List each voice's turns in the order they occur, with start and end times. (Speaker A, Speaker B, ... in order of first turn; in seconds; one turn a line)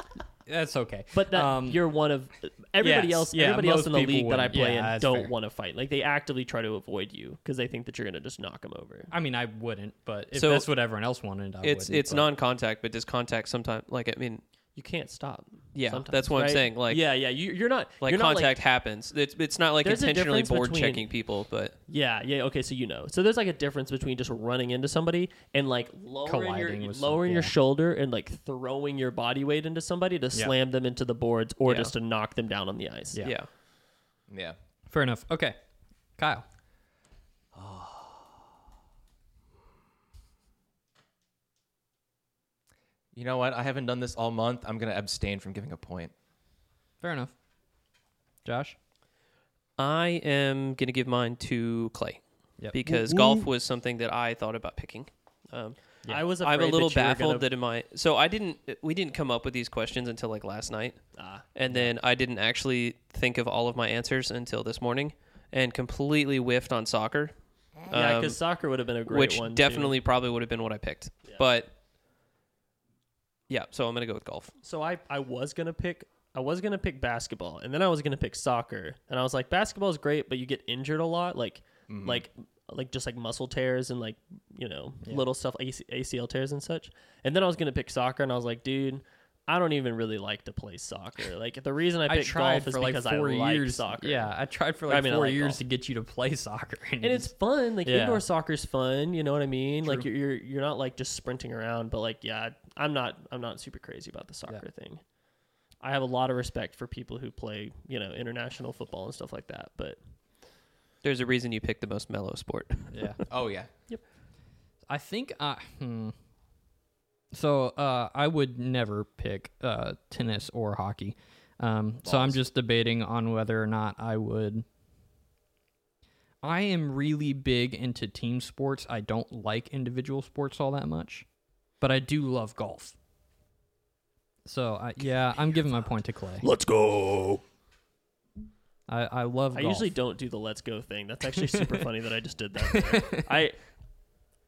Speaker A: 0.4-1.8
Speaker B: 1.1-9.1
Speaker A: 2.8-5.3
Speaker A: 9.1-12.3
Speaker C: 10.3-10.7
Speaker C: 11.6-14.4
Speaker B: 14.7-18.6
Speaker C: 15.7-17.0
Speaker C: 18.0-21.7
Speaker B: 19.8-21.1
Speaker B: 21.9-33.2
Speaker A: 26.2-27.5
Speaker C: 31.6-31.9
Speaker C: 33.2-33.5
Speaker D: 34.3-34.6
Speaker A: 34.9-35.6
Speaker A: 36.2-36.4
Speaker D: 37.5-38.4
Speaker D: 43.1-46.1
Speaker A: 47.0-47.3
Speaker A: 48.4-48.8
Speaker C: 49.8-68.4
Speaker A: 52.6-53.4
Speaker B: 56.1-57.5
Speaker B: 61.1-61.4
Speaker A: 61.7-61.9
Speaker B: 67.9-70.0
Speaker C: 69.1-71.7
Speaker C: 73.5-74.5
Speaker B: 74.6-94.3
Speaker D: 81.9-82.2
Speaker A: 85.0-85.3
Speaker A: 92.0-97.3
Speaker B: 94.8-95.6
Speaker B: 97.0-105.0
Speaker A: 97.8-98.2
Speaker A: 99.8-100.1
Speaker B: 105.8-110.0
Speaker C: 111.0-113.1
Speaker A: 112.9-113.2
Speaker D: 113.3-113.7
Speaker A: 114.9-116.1
Speaker A: 117.3-124.7
Speaker D: 122.0-122.5
Speaker A: 126.4-131.2
Speaker A: 131.8-132.9
Speaker A: 134.4-136.5
Speaker B: 136.4-137.4
Speaker A: 138.9-139.9
Speaker B: 139.5-143.6
Speaker A: 141.5-141.9
Speaker A: 142.6-143.4